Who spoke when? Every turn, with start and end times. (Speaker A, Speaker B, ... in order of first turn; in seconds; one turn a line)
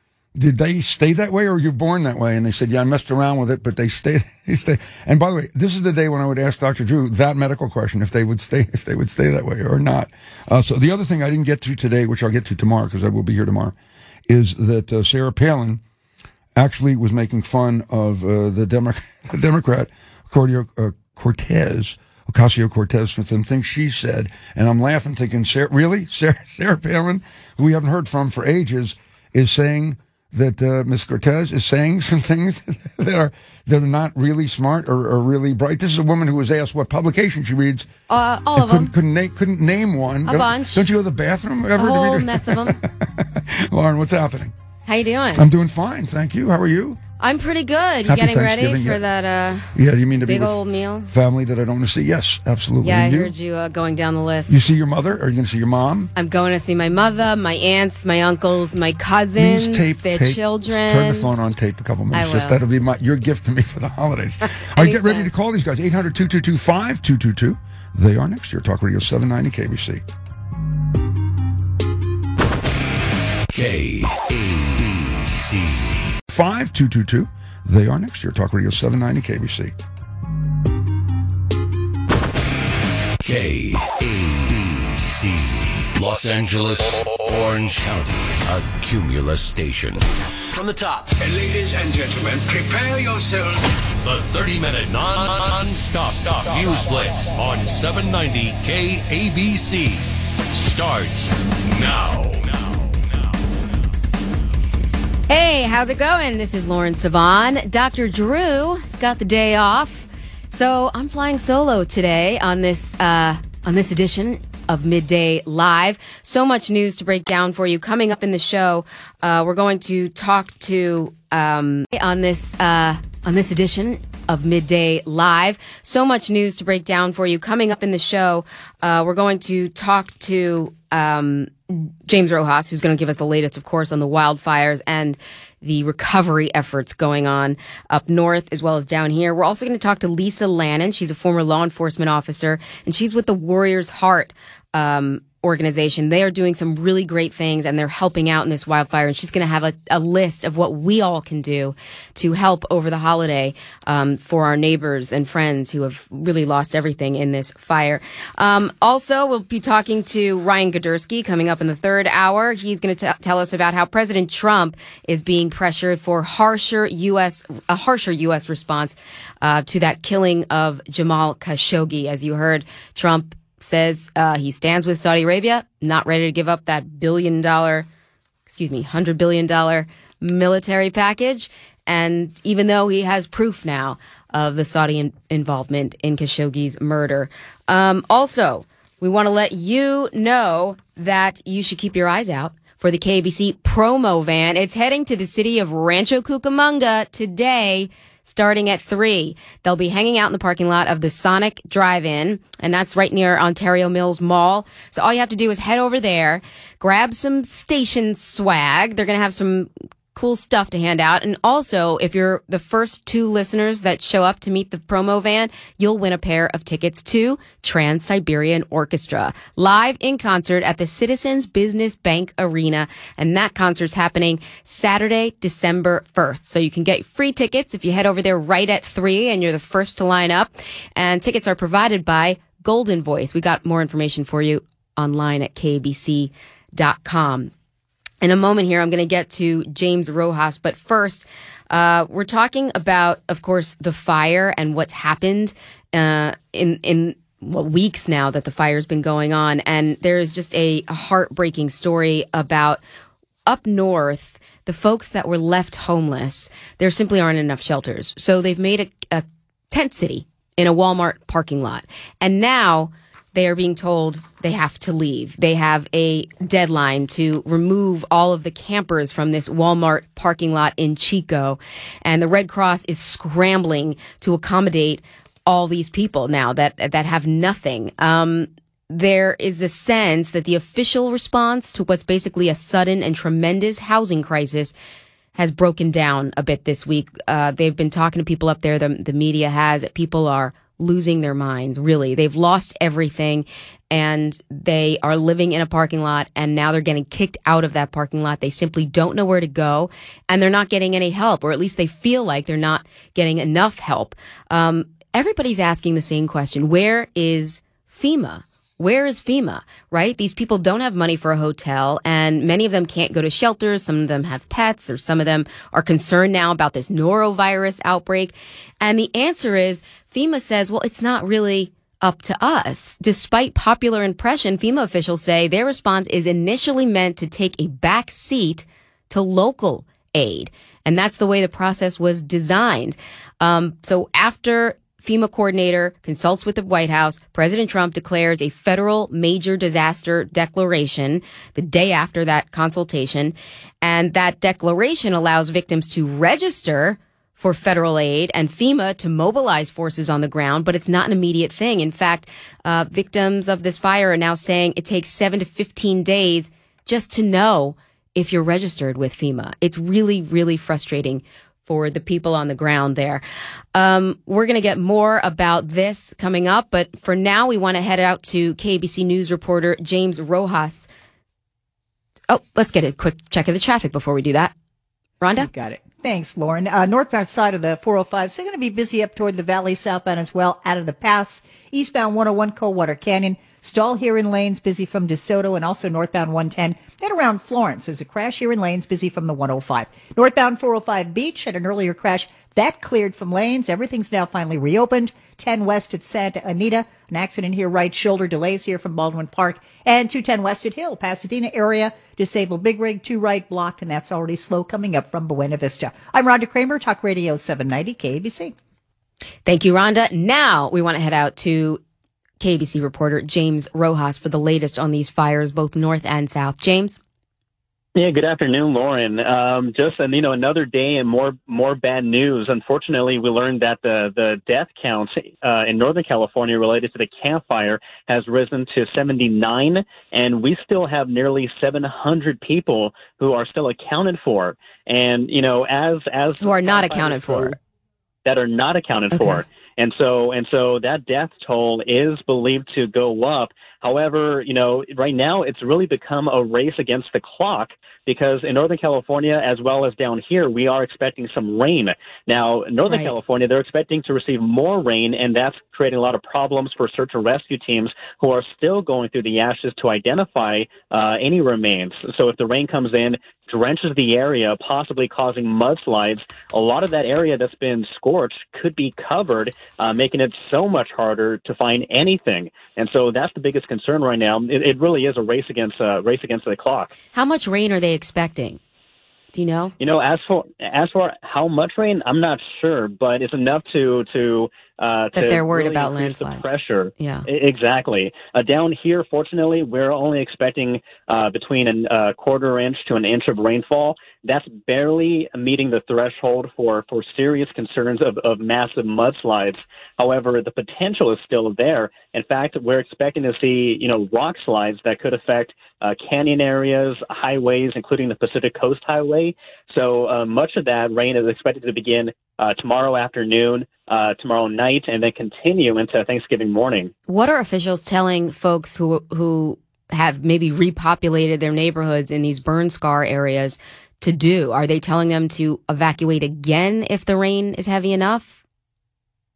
Speaker A: 0.4-13.7
Speaker A: 14.3-15.8
Speaker A: 16.6-37.9
Speaker B: 38.1-38.9
Speaker A: 38.6-44.5
Speaker B: 40.3-40.9
Speaker B: 41.8-42.8
Speaker B: 44.9-45.5
Speaker A: 45.4-47.0
Speaker B: 47.2-51.1
Speaker A: 48.1-49.0
Speaker A: 49.8-53.3
Speaker B: 52.8-54.6
Speaker A: 54.5-56.1
Speaker B: 56.1-61.3
Speaker A: 59.4-70.0
Speaker B: 62.1-62.6
Speaker B: 64.8-65.3
Speaker C: 73.5-76.2
Speaker A: 76.3-79.7
Speaker C: 83.2-91.1
Speaker D: 91.1-93.7
Speaker C: 94.0-103.0
Speaker B: 105.3-177.9
Speaker B: 178.5-237.5
Speaker B: 238.2-252.8
Speaker B: 253.5-284.7
Speaker B: 285.4-363.2
Speaker B: 363.7-370.9
Speaker B: 372.3-374.5
Speaker B: 375.2-375.5
Speaker E: 375.4-408.6
Speaker B: 409.5-411.8
Speaker B: 412.4-417.0
Speaker F: 418.0-437.6
Speaker B: 436.4-437.6
Speaker F: 438.2-476.9
Speaker B: 439.1-439.4
Speaker B: 452.9-453.1
Speaker B: 477.1-478.6
Speaker B: 479.3-479.8
Speaker F: 479.8-516.9
Speaker B: 485.1-487.3
Speaker B: 517.1-528.4